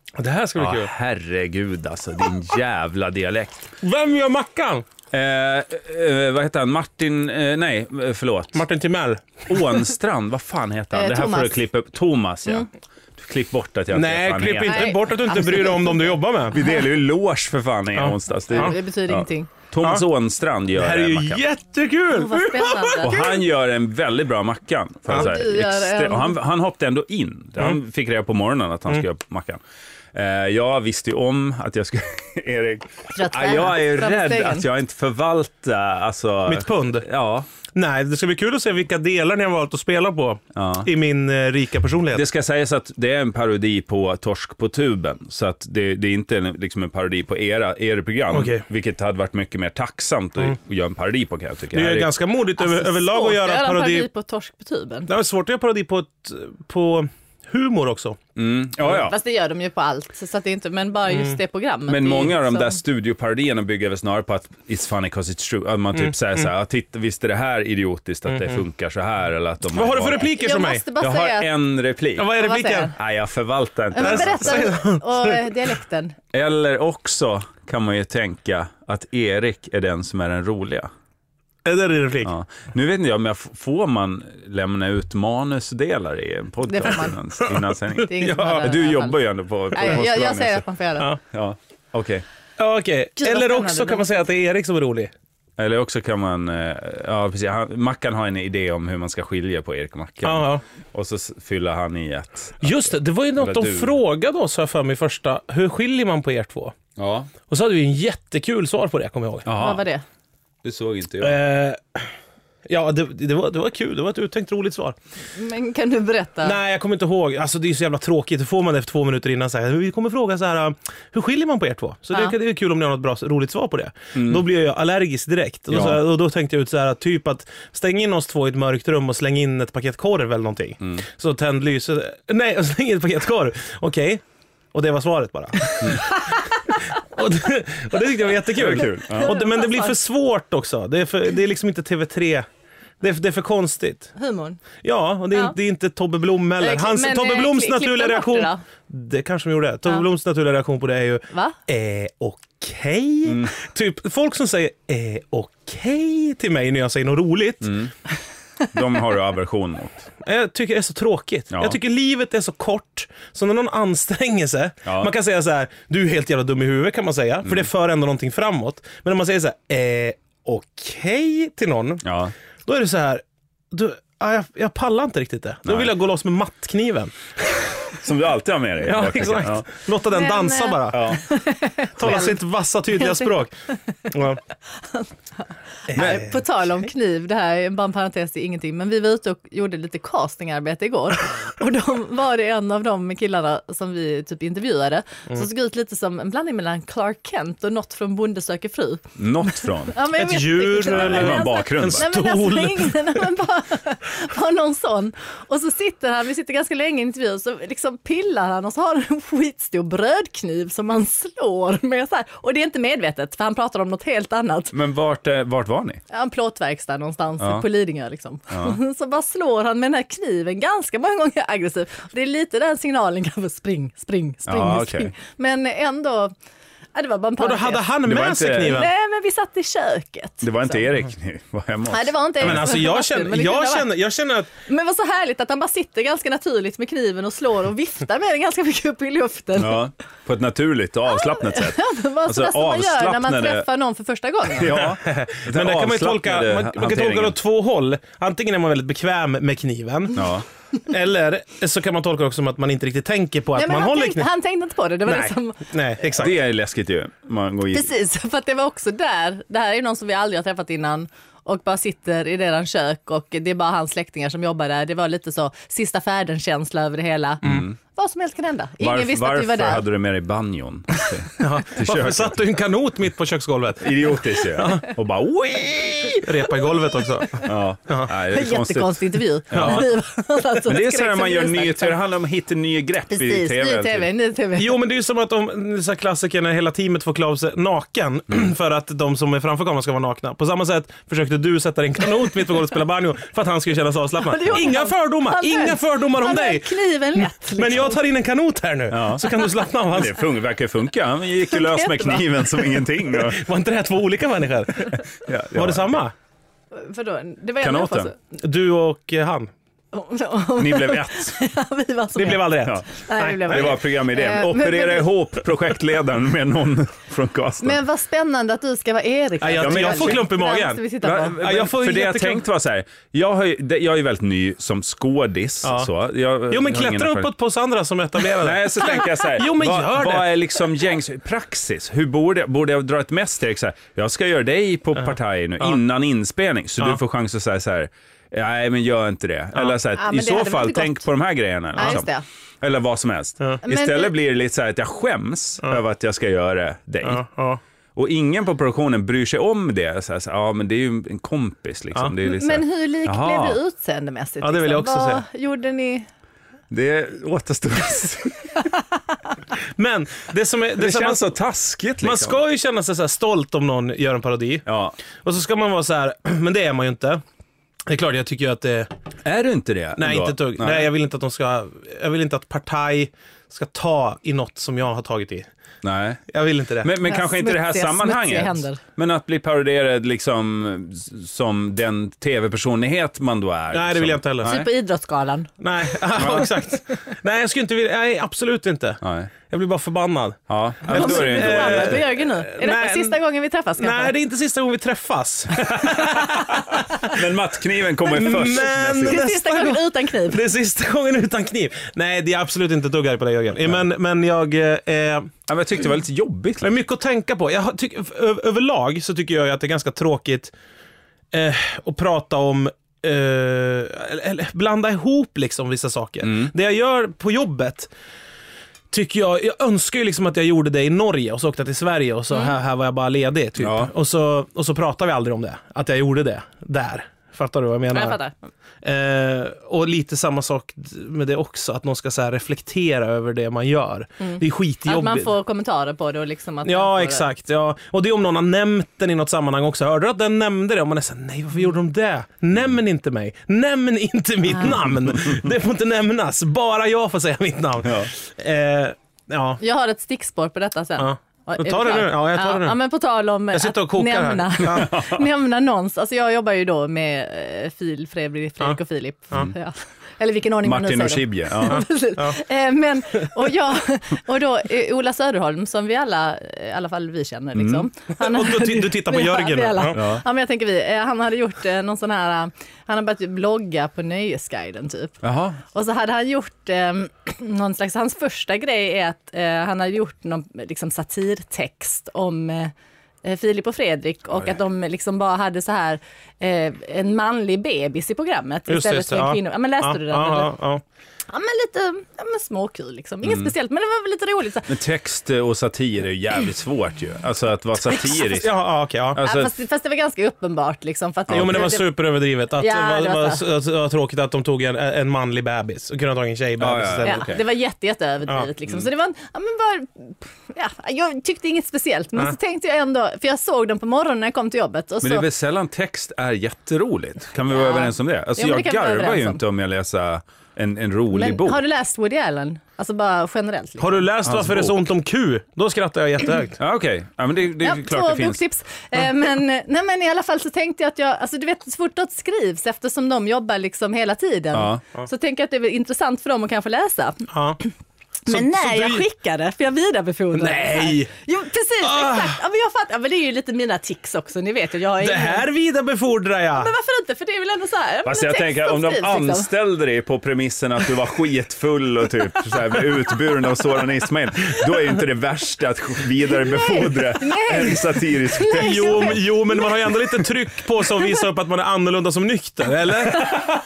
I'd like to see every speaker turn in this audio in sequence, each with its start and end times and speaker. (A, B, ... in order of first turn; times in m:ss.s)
0:00.2-0:00.9 A
0:00.6-0:03.7 B
0:03.8-0:04.8 A
0:05.1-0:08.6 B
0:08.5-0:09.4 A
0:09.5-0:15.0 B
0:10.9-0:11.6 C
0:13.9-0:16.6 A
0:14.6-0:16.2 C
0:16.5-0:21.4 B
0:17.9-0:18.7 A
0:18.5-0:19.5 C
0:20.8-0:23.4 A
0:22.1-0:23.2 C
0:23.0-0:29.6 B
0:25.1-0:26.4 C
0:30.1-0:37.5 B
0:33.1-0:34.7 C
0:36.5-0:37.1 A
0:37.7-0:42.2 A
0:40.5-0:40.9 B
0:42.1-0:52.1 B
0:48.3-0:48.6 A
0:51.7-0:54.1 A
0:52.6-0:55.1 C
0:55.1-0:58.2 A
0:58.4-0:59.2 B
0:58.9-1:02.8 C
1:01.9-1:10.3 B
1:09.7-1:10.8 A
1:10.2-1:11.5 C
1:11.0-1:12.3 B
1:12.2-1:12.9 A
1:12.4-1:12.9 C
1:12.9-1:14.7 B
1:13.9-1:16.2 C
1:14.0-1:15.5 A
1:16.3-1:20.9 B
1:21.6-1:22.3 A
1:22.2-1:30.6 B
1:26.6-1:29.2 C
1:28.0-1:28.7 A
1:29.7-1:31.1 C
1:31.3-1:32.2 B
1:32.6-1:35.1 A
1:33.2-1:34.1 C
1:35.6-1:43.9 B
1:40.2-1:40.6 A
1:42.6-1:46.8 A
1:47.0-1:47.3 B
1:47.5-1:49.5 A
1:49.4-1:49.8 B
1:49.5-1:50.0 C
1:50.6-1:51.4 B
1:51.2-1:52.1 A
1:52.7-1:55.0 A
1:55.3-1:56.6 C
1:56.4-2:14.2 A
2:04.1-2:04.4 B
2:05.7-2:06.0 B
2:14.7-2:16.3 A
2:15.8-2:16.4 C
2:17.0-2:22.4 A
2:18.6-2:19.3 B
2:19.0-2:20.0 C
2:23.0-2:24.1 A
2:24.2-2:24.6 C
2:24.8-2:37.7 A
2:26.6-2:28.6 C
2:33.2-2:33.5 B
2:37.6-2:37.9 B
2:38.7-2:40.1 B
2:40.2-2:52.0 A
2:41.5-2:41.8 B
2:44.8-2:45.1 B
2:52.0-2:52.3 B
2:52.6-2:57.7 A
2:55.7-2:55.9 B
2:57.9-2:59.7 B
2:58.8-3:01.1 A
3:00.1-3:02.4 C
3:00.9-3:01.2 B
3:02.0-3:03.5 A
3:02.9-3:03.3 C
3:04.1-3:04.4 A
3:04.8-3:34.7 C
3:05.9-3:06.4 A
3:06.0-3:06.2 B
3:19.2-3:20.0 B
3:20.1-3:23.3 A
3:20.8-3:22.1 B
3:34.7-3:36.0 B
3:36.1-3:46.3 C
3:37.4-3:37.6 B
3:38.5-3:38.8 B
3:44.5-3:45.1 B
3:47.0-3:47.9 C
3:47.4-3:48.9 A
3:48.1-3:48.8 B
3:48.6-3:50.8 C
3:50.4-3:52.7 B
3:51.9-3:54.0 C
3:52.4-3:54.5 A
3:54.6-3:59.8 C
3:59.6-4:03.6 B
4:01.1-4:04.8 C
4:04.6-4:07.4 B
4:04.6-4:10.2 A
4:10.1-4:10.4 B
4:10.9-4:14.3 A
4:13.6-4:15.7 C
4:15.0-4:16.3 A
4:16.1-4:17.9 B
4:17.7-4:29.8 C
4:27.4-4:27.8 B
4:28.8-4:32.4 B
4:31.4-4:34.9 A
4:33.8-4:36.2 B
4:36.2-4:38.1 A
4:37.4-4:39.9 B
4:38.3-4:42.0 C
4:39.5-4:39.9 A
4:40.6-4:44.1 B
4:43.1-4:44.8 C
4:44.6-5:00.2 A
4:54.3-4:58.0 C
4:58.9-5:03.4 B
5:01.6-5:02.6 C
5:03.2-5:06.1 A
5:05.2-5:06.0 B
5:06.7-5:08.2 C
5:07.6-5:08.1 B
5:08.4-5:09.5 A
5:09.9-5:15.1 C
5:10.6-5:11.4 B
5:12.2-5:13.8 A
5:13.4-5:17.8 B
5:17.6-5:21.4 C
5:19.4-5:20.8 A
5:19.6-5:20.3 B
5:21.0-5:27.3 B
5:21.4-5:22.4 A
5:25.6-5:25.9 A
5:26.5-5:30.3 A
5:28.4-5:42.1 B
5:40.0-5:41.0 C
5:41.8-5:42.2 C
5:42.6-5:47.2 B
5:43.6-5:44.1 C
5:47.0-5:47.6 A
5:48.0-5:53.6 B
5:52.2-5:56.1 C
5:54.4-5:55.2 A
5:56.7-5:58.7 B
5:59.8-6:01.3 A
6:00.8-6:02.4 B
6:02.0-6:04.6 A
6:04.6-6:05.0 B
6:05.2-6:07.2 A
6:07.9-6:08.9 A
6:09.2-6:10.9 B
6:10.0-6:15.5 A
6:15.8-6:16.2 B
6:16.3-6:16.9 A
6:16.8-6:24.7 B
6:17.0-6:18.8 C
6:23.7-6:24.6 A
6:24.4-6:25.5 C
6:25.6-6:33.2 A
6:26.2-6:26.5 B
6:29.0-6:29.3 B
6:30.5-6:32.0 B
6:30.9-6:34.1 C
6:33.8-6:37.2 A
6:35.7-6:39.3 B
6:38.0-6:40.4 C
6:38.1-6:45.3 A
6:45.5-6:46.7 B
6:46.6-6:50.5 A
6:51.3-6:57.9 A
6:56.2-6:56.5 B
6:58.9-7:08.2 A
7:03.6-7:03.9 B
7:07.9-7:08.3 C
7:08.8-7:15.3 A
7:14.2-7:17.3 C
7:16.6-7:29.6 A
7:27.8-7:28.1 B
7:29.6-7:55.2 C
7:31.0-7:32.8 A
7:33.5-7:34.9 A
7:34.6-7:35.3 B
7:40.6-7:41.8 B
7:41.7-7:42.4 A
7:47.6-7:47.9 B
7:48.2-7:50.0 A
7:50.0-7:50.2 B
7:55.2-7:55.6 B
7:55.7-8:10.5 C
8:08.7-8:10.8 A
8:11.3-8:14.7 C
8:13.2-8:13.5 B
8:14.7-8:18.5 B
8:18.2-8:19.2 A
8:19.1-8:19.5 B
8:19.2-8:22.0 C
8:21.3-8:21.7 B
8:21.3-8:27.3 A
8:22.6-8:23.4 C
8:26.6-8:27.4 B
8:27.0-8:35.3 C
8:35.0-8:41.6 B
8:37.5-8:39.4 C
8:41.1-8:44.0 C
8:43.8-8:46.6 A
8:44.2-8:44.9 B
8:46.6-8:48.4 B
8:47.6-8:57.2 C
8:54.5-8:54.8 B
8:57.3-8:57.6 A
8:58.3-9:05.5 C
8:58.3-8:59.0 A
9:00.3-9:01.1 A
9:01.8-9:02.4 A
9:05.0-9:06.7 A
9:06.6-9:09.5 C
9:08.0-9:19.2 B
9:16.5-9:20.2 C
9:18.6-9:23.4 A